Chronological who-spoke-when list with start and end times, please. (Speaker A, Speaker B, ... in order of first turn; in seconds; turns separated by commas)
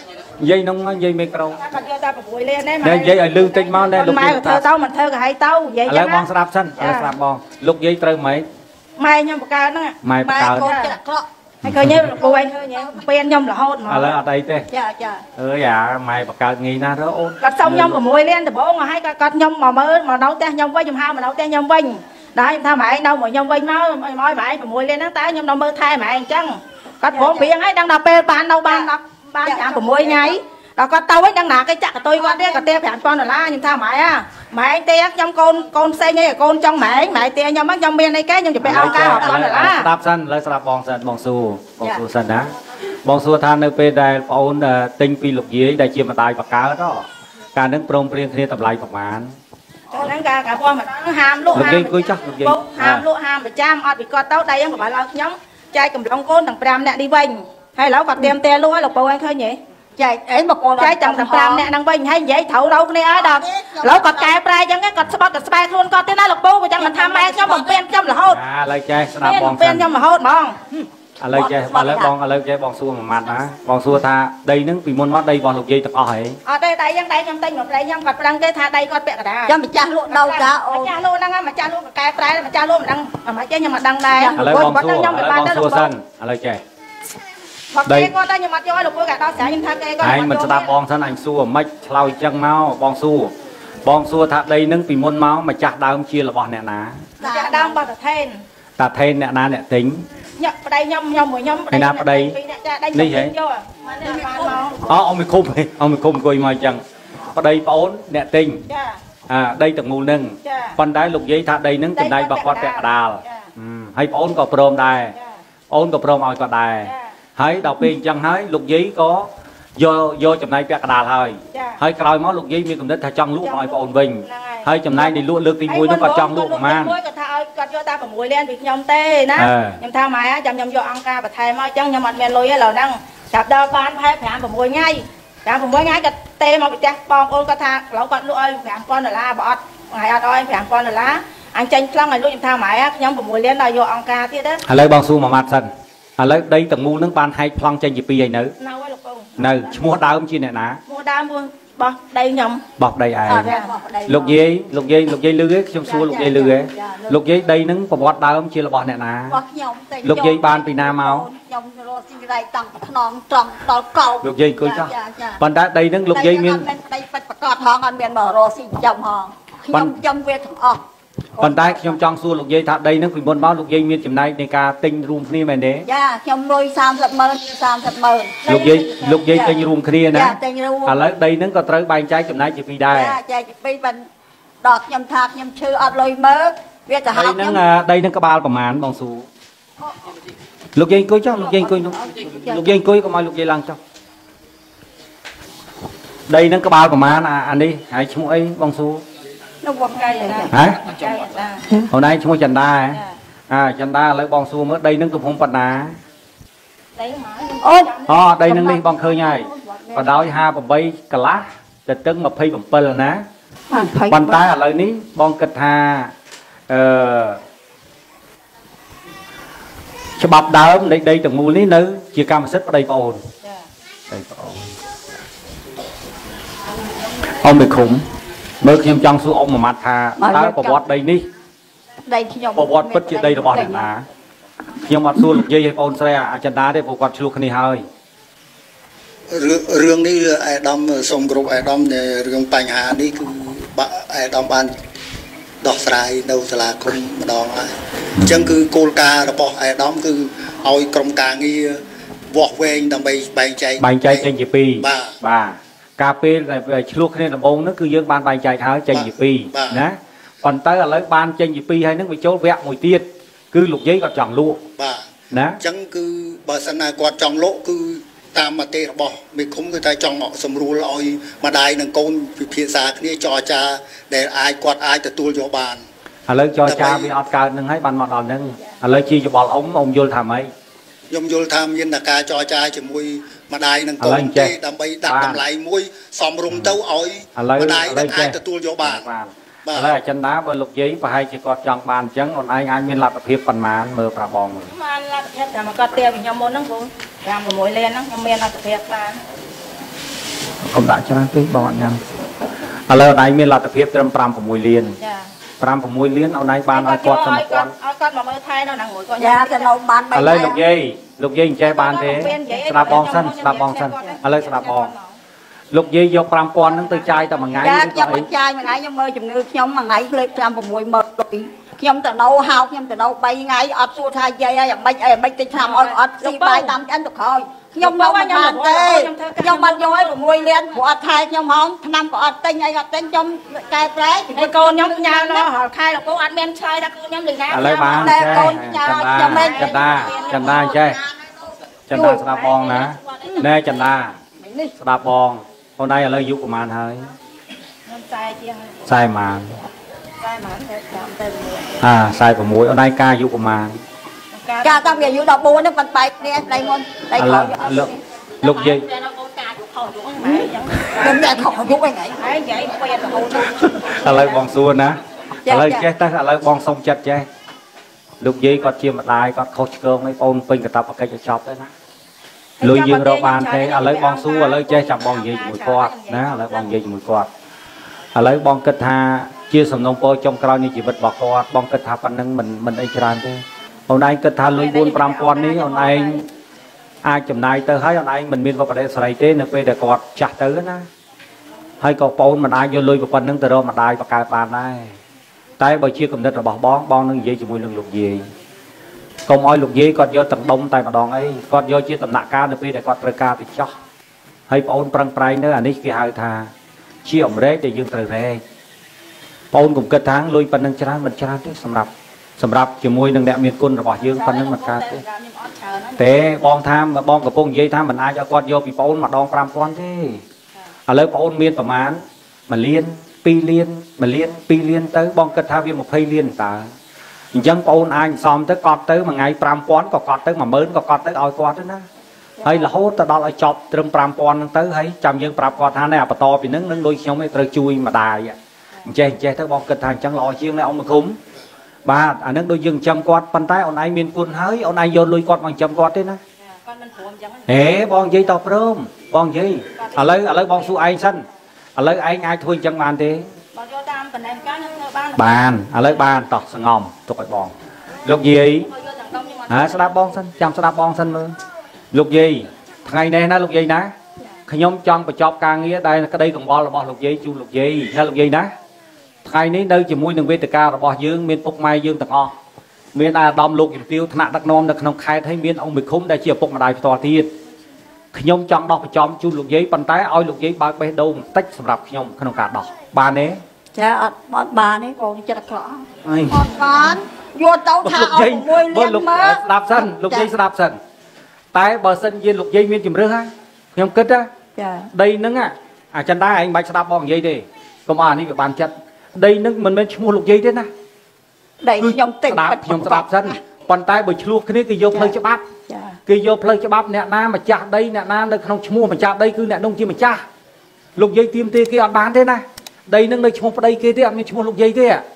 Speaker A: 0.4-1.6, Speaker B: 1.6-6.3, Speaker A: 2.8-4.6, Speaker A: 5.9-8.5, Speaker B: 6.8-7.1, Speaker B: 9.0-10.0, Speaker A: 10.0-10.7, Speaker C: 10.2-11.3, Speaker B: 10.5-10.9, Speaker A: 11.6-12.1, Speaker B: 11.7-14.2, Speaker C: 12.0-13.0, Speaker A: 13.9-14.7, Speaker C: 14.7-15.2, Speaker A: 15.4-18.0, Speaker B: 17.4-39.9, Speaker C: 27.1-27.5, Speaker C: 28.7-28.9, Speaker C: 29.4-30.4, Speaker C: 32.2-32.7, Speaker A: 38.6-42.5, Speaker C: 38.6-39.7, Speaker A: 43.0-49.4, Speaker B: 49.9-59.6, Speaker A: 51.5-53.0, Speaker C: 60.0-61.7, Speaker B: 60.8-68.4, Speaker C: 63.1-64.4, Speaker C: 66.8-67.8, Speaker A: 68.3-69.9, Speaker B: 69.2-70.8, Speaker A: 71.2-76.4, Speaker C: 71.3-72.1, Speaker B: 76.5-79.6, Speaker C: 79.5-80.9, Speaker B: 80.1-85.9, Speaker C: 84.1-84.5, Speaker A: 84.3-86.6, Speaker B: 87.7-90.7, Speaker A: 87.8-88.1, Speaker A: 90.0-93.3, Speaker A: 93.8-97.1, Speaker C: 97.2-97.8, Speaker B: 97.2-98.4, Speaker A: 98.8-100.1, Speaker B: 100.4-104.8, Speaker A: 101.7-102.3, Speaker A: 102.9-103.3, Speaker C: 104.0-104.6, Speaker A: 104.8-106.8, Speaker A: 107.3-108.6, Speaker B: 108.7-109.0, Speaker A: 109.3-115.2, Speaker B: 110.4-110.8, Speaker B: 112.0-113.5, Speaker A: 115.7-126.9, Speaker B: 116.8-117.1, Speaker B: 121.5-121.8, Speaker B: 123.4-144.6, Speaker A: 129.4-129.8, Speaker A: 144.6-148.5, Speaker B: 148.6-149.3, Speaker A: 149.4-150.8, Speaker B: 150.9-152.6, Speaker A: 152.8-153.5, Speaker C: 153.3-154.4, Speaker B: 153.4-153.7, Speaker A: 154.1-159.4, Speaker C: 155.8-157.2, Speaker C: 159.3-165.4, Speaker A: 160.0-161.3, Speaker A: 164.2-166.7, Speaker C: 166.1-170.8, Speaker A: 169.7-170.0, Speaker C: 171.4-172.0, Speaker A: 171.4-175.9, Speaker C: 175.9-178.5, Speaker B: 178.4-179.5, Speaker A: 178.5-183.2, Speaker C: 179.3-179.6, Speaker C: 180.1-181.0, Speaker C: 182.9-184.1, Speaker C: 184.6-187.6, Speaker A: 187.1-189.3, Speaker A: 190.8-193.8, Speaker C: 191.3-192.7, Speaker A: 196.3-199.0, Speaker C: 199.6-200.5, Speaker B: 199.9-201.7, Speaker A: 200.5-200.8, Speaker A: 201.9-206.0, Speaker B: 207.0-208.2, Speaker C: 207.6-207.9, Speaker A: 208.1-213.2, Speaker C: 208.4-210.4, Speaker C: 213.7-214.4, Speaker A: 214.1-216.1, Speaker A: 216.7-217.4, Speaker A: 220.2-223.2, Speaker A: 224.1-224.7, Speaker A: 227.3-228.0, Speaker A: 228.6-231.2, Speaker C: 230.2-230.8, Speaker C: 232.1-233.9, Speaker A: 232.6-234.0, Speaker A: 234.8-237.8, Speaker D: 239.3-244.7, Speaker D: 245.6-254.3, Speaker A: 253.8-264.6, Speaker D: 254.8-255.1, Speaker D: 258.9-259.8, Speaker D: 264.8-265.1, Speaker A: 265.3-265.6, Speaker D: 265.6-275.8, Speaker A: 276.3-280.5, Speaker D: 276.6-277.1, Speaker D: 281.1-289.0, Speaker A: 284.0-285.4, Speaker A: 286.5-286.8, Speaker A: 287.4-294.7, Speaker D: 289.7-289.9, Speaker B: 294.7-299.2, Speaker A: 300.6-302.0, Speaker A: 302.9-305.0, Speaker B: 305.0-305.3, Speaker A: 305.6-307.7, Speaker B: 306.7-309.7, Speaker C: 309.2-310.6, Speaker A: 310.1-314.9, Speaker B: 311.6-315.1, Speaker A: 315.7-318.3, Speaker B: 316.6-318.2, Speaker C: 317.6-335.5, Speaker B: 325.6-326.8, Speaker B: 327.8-330.1, Speaker B: 334.4-338.6, Speaker A: 337.5-341.0, Speaker C: 337.9-342.3, Speaker B: 339.1-341.0, Speaker A: 341.9-344.2, Speaker B: 342.0-343.9, Speaker C: 344.4-344.7, Speaker A: 344.8-347.1, Speaker B: 347.9-348.8, Speaker A: 348.9-349.6, Speaker B: 350.2-350.7, Speaker C: 350.7-351.8, Speaker A: 351.8-353.8, Speaker B: 354.3-355.3, Speaker C: 354.6-357.9, Speaker A: 357.2-358.8, Speaker B: 358.4-364.4, Speaker C: 360.2-364.3, Speaker A: 363.6-367.3, Speaker C: 365.4-365.9, Speaker A: 368.2-371.7, Speaker B: 372.6-376.8, Speaker A: 372.6-377.3, Speaker A: 378.1-386.2, Speaker B: 384.5-386.2, Speaker A: 387.0-390.9, Speaker A: 391.8-394.9, Speaker A: 395.6-398.3, Speaker A: 399.3-403.7, Speaker A: 404.5-406.5, Speaker A: 407.1-408.4, Speaker A: 409.5-415.0, Speaker B: 414.0-416.2, Speaker A: 416.0-420.2, Speaker A: 420.9-426.7, Speaker A: 427.3-431.9, Speaker A: 432.4-441.2, Speaker A: 441.9-446.2, Speaker B: 446.4-447.6, Speaker A: 447.5-451.3, Speaker B: 449.8-450.7, Speaker A: 451.8-453.3, Speaker B: 453.5-455.5, Speaker A: 455.2-457.5, Speaker A: 458.1-458.7, Speaker B: 458.6-460.1, Speaker A: 459.5-461.4, Speaker A: 461.9-463.9, Speaker A: 464.5-468.5, Speaker A: 469.2-472.3, Speaker A: 472.9-477.3, Speaker A: 478.1-483.4, Speaker C: 483.7-490.3, Speaker A: 486.1-486.5, Speaker A: 487.8-490.8, Speaker A: 491.5-494.3, Speaker C: 494.6-494.9, Speaker A: 494.9-500.7, Speaker C: 501.6-503.4, Speaker A: 501.8-505.4, Speaker C: 505.7-505.9, Speaker A: 506.1-510.2, Speaker A: 511.0-515.0